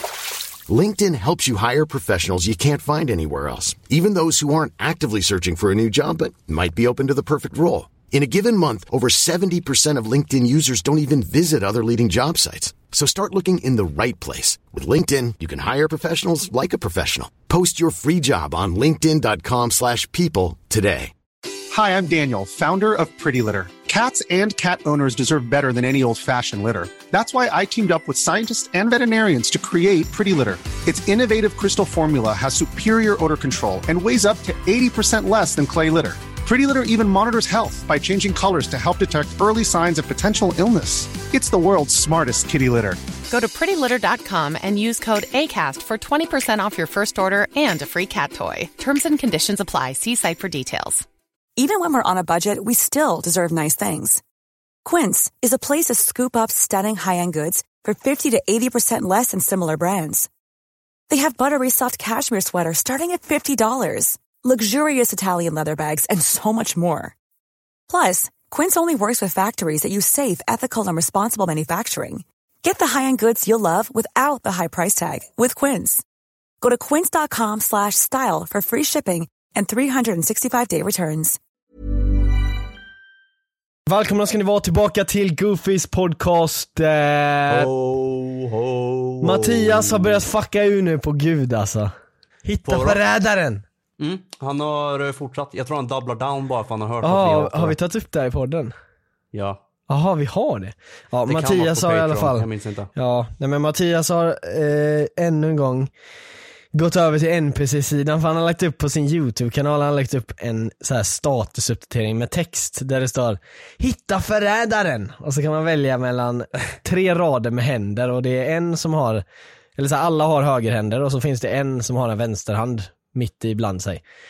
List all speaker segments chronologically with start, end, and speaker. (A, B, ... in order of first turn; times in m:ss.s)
0:00.6-0:21.1 A
0:21.7-0:43.0 B
0:43.3-0:51.0 C
0:51.6-0:54.2 D
0:54.8-1:00.3 D
1:01.1-1:07.1 D
1:07.9-1:16.0 D
1:16.6-1:21.4 D
1:23.9-1:27.7 E
1:27.5-1:30.2 F
1:29.2-1:31.9 E
1:32.4-1:33.6 E
1:32.6-1:33.0 F
1:34.0-1:37.8 F
1:37.0-1:38.7 E
1:39.3-1:39.6 F
1:39.9-1:45.9 E
1:41.3-1:42.9 F
1:46.7-1:59.2 E
1:59.8-2:04.0 E